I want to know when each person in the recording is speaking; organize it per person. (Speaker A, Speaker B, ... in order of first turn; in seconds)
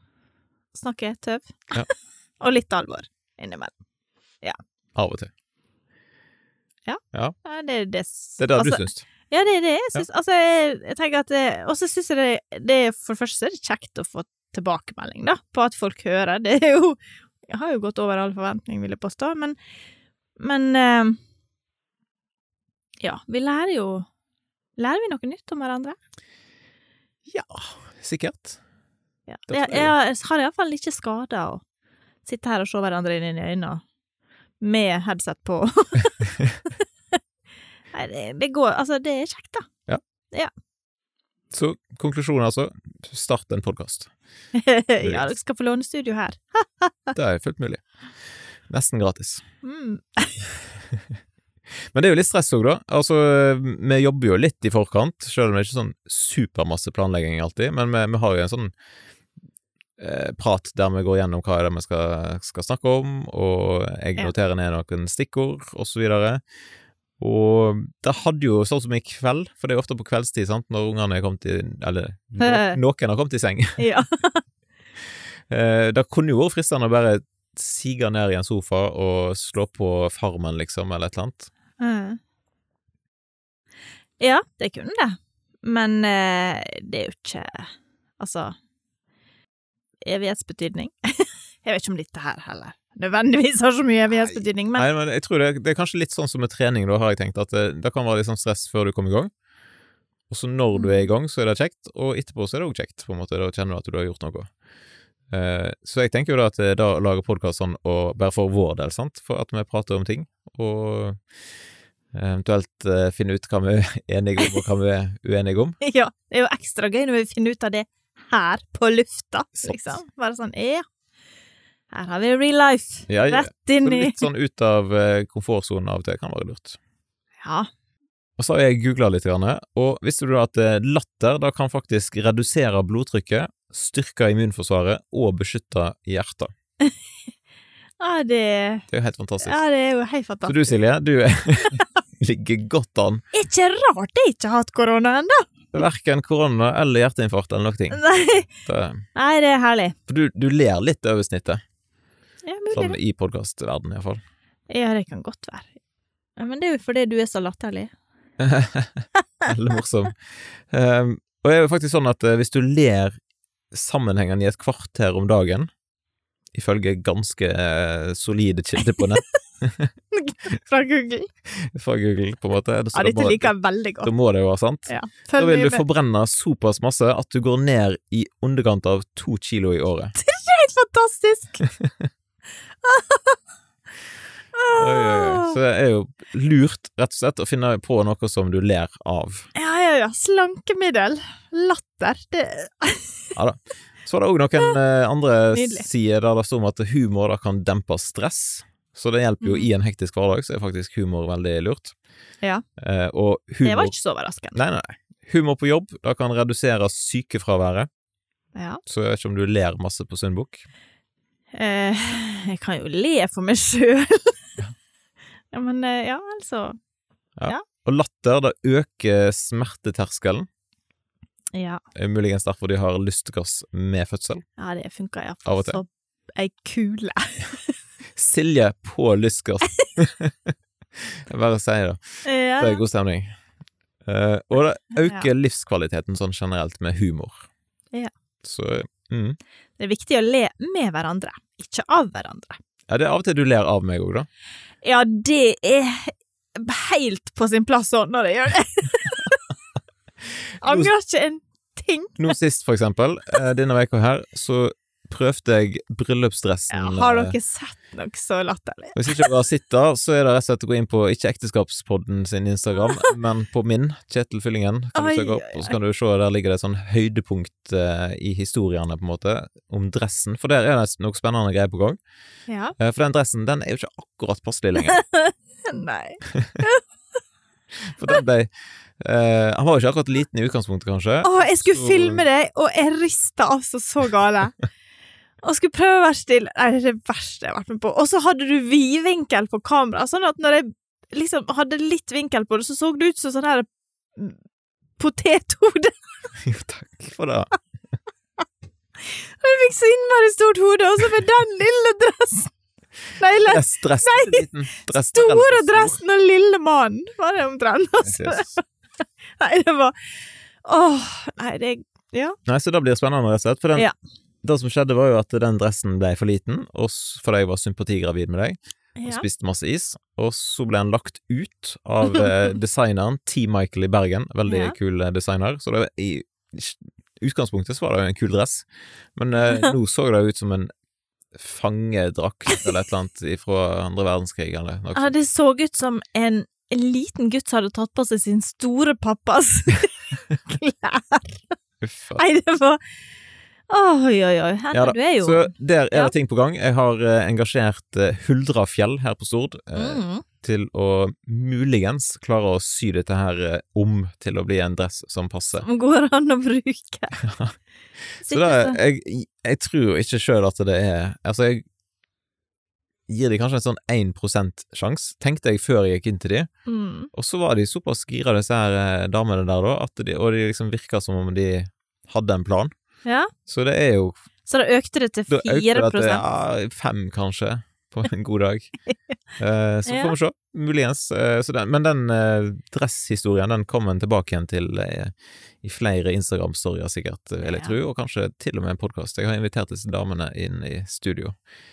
Speaker A: 0.7-3.7, 6.9-19.6, 20.4-21.2, 23.0-24.1, 24.8-26.0, 29.3-31.6, 32.2-33.8, 34.6-37.2, 37.9-39.7, 44.5-47.1, 49.6-50.5, 72.4-72.8, 73.8-74.4, 81.8-82.2, 84.2-88.5, 90.0-94.9, 100.7-101.1, 115.8-120.8, 121.9-124.2, 127.4-127.7, 138.0-138.9, 139.4-140.8, 143.3-145.5, 147.9-148.5, 149.2-150.0, 152.5-153.0, 154.7-155.7, 156.4-157.9, 170.1-171.3, 172.9-174.1, 174.9-175.8, 180.2-181.6, 182.8-183.4, 184.6-185.6, 189.6-193.2, 195.5-195.9, 199.4-199.7, 203.6-204.6, 208.6-208.8, 211.6-214.6, 215.5-216.8, 221.5-221.8, 224.6-227.7, 232.2-232.8, 235.0-235.3, 239.8-242.6, 244.8-249.5, 250.6-252.4, 256.7-259.3, 264.9-265.8, 272.5-272.8, 274.9-276.8, 281.2-284.6, 285.4-294.4, 295.0-296.0, 299.1-302.5, 303.2-308.6, 309.4-309.9, 310.6-312.4, 319.0-319.2, 324.5-324.8, 329.4-329.7, 334.9-341.6, 342.2-342.8, 343.7-346.1, 349.8-350.2, 355.6-357.2, 358.2-358.8, 366.7-367.1, 373.1-373.3, 374.5-376.2, 379.9-380.1, 387.4-387.7
Speaker B: 5.0-5.3, 8.4-9.1, 27.3-28.6, 29.5-29.9, 41.5-44.1, 45.0-45.3, 47.1-47.8, 48.7-49.4, 51.9-58.7, 60.0-66.4, 67.2-73.8, 75.5-81.5, 94.2-99.3, 100.3-104.5, 105.3-111.2, 112.1-115.8, 119.6-120.0, 123.1-126.8, 128.4-136.5, 138.9-139.6, 140.5-143.2, 145.7-148.0, 148.6-149.0, 150.1-151.6, 152.7-154.2, 158.4-163.2, 163.7-165.7, 166.5-169.9, 171.6-180.2, 181.7-182.1, 184.7-189.5, 193.3-201.9, 202.8-203.9, 204.6-207.9, 208.9-210.6, 217.4-220.5, 221.9-224.4, 225.5-225.8, 228.2-233.3, 234.1-237.4, 238.4-239.4, 242.9-244.3, 250.6-250.9, 252.2-257.4, 258.9-272.0, 272.8-275.0, 276.3-276.6, 277.9-282.2, 296.4-297.5, 303.4-306.0, 308.0-308.5, 312.5-313.9, 314.4-330.7, 331.3-335.1, 341.8-342.2, 344.7-355.7, 357.2-357.5, 358.2-361.6, 363.1-366.5, 367.1-372.7, 373.5-374.1, 375.3-378.7, 379.4-391.4